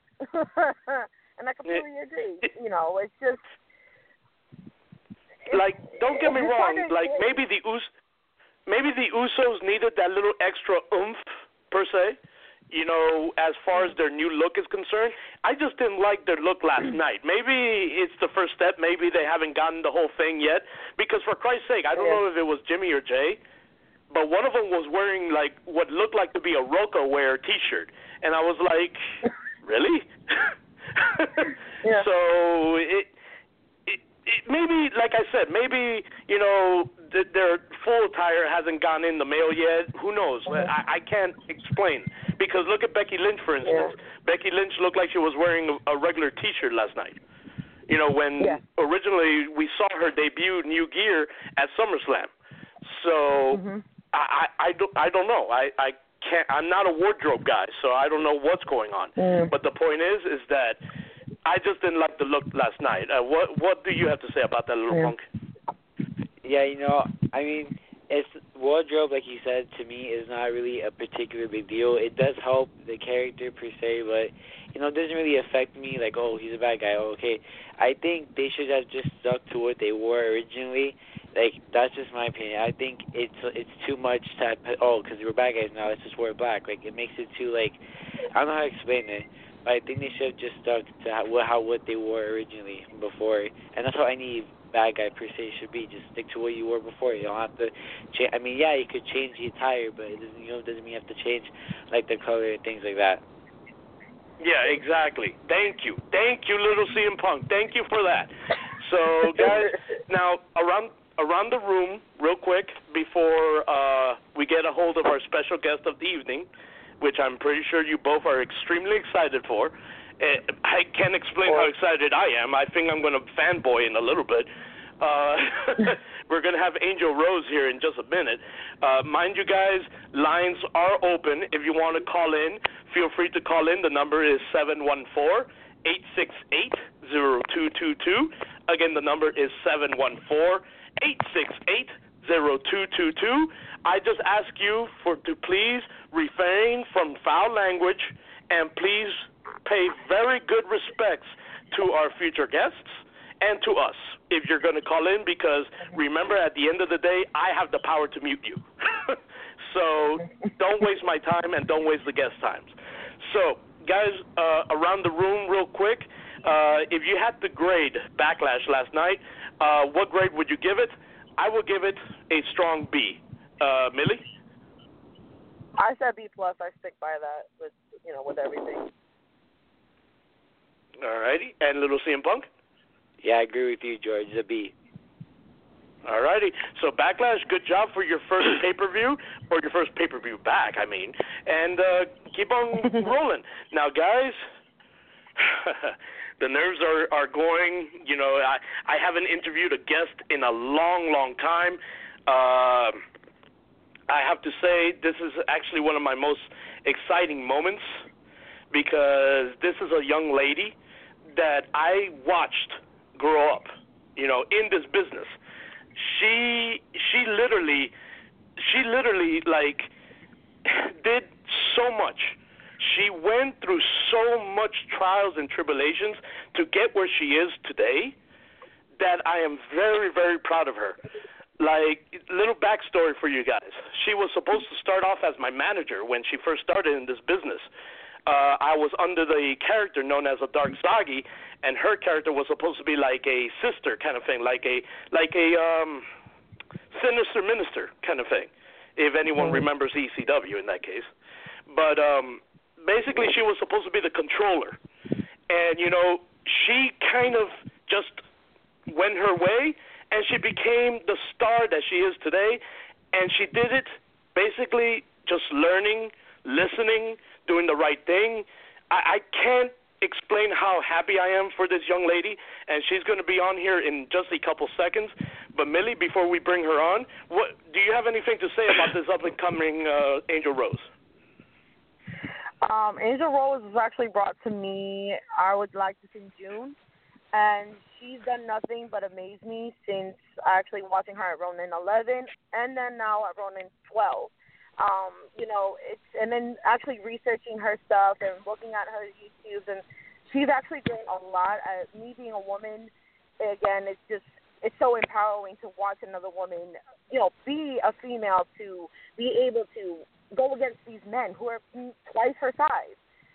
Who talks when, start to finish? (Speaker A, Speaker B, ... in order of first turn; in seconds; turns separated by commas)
Speaker A: 0.3-3.4, Speaker B: 5.5-7.9, Speaker A: 6.1-7.2, Speaker B: 8.7-12.2, Speaker B: 12.7-23.4, Speaker A: 21.9-22.2, Speaker B: 24.1-29.0, Speaker B: 29.6-33.1, Speaker B: 33.9-47.2, Speaker A: 43.6-43.9, Speaker B: 47.9-52.3, Speaker B: 52.8-60.8, Speaker A: 53.5-53.8, Speaker A: 59.2-59.5, Speaker B: 61.4-65.2, Speaker C: 66.4-87.8, Speaker C: 88.3-103.2, Speaker B: 104.4-116.5, Speaker B: 117.0-124.5, Speaker B: 125.0-174.2, Speaker A: 175.8-178.9, Speaker B: 181.0-182.5, Speaker C: 183.2-184.7, Speaker B: 186.0-194.4, Speaker B: 195.4-203.0, Speaker B: 204.1-207.9, Speaker B: 208.7-210.7, Speaker B: 211.3-215.3, Speaker B: 215.9-217.9, Speaker B: 218.6-219.9, Speaker B: 220.7-228.1, Speaker B: 229.0-231.0, Speaker B: 231.6-237.7, Speaker B: 238.2-246.1, Speaker B: 246.9-251.1, Speaker B: 251.7-254.8, Speaker B: 255.5-258.2, Speaker B: 258.9-280.9, Speaker A: 282.6-286.8, Speaker A: 287.3-313.0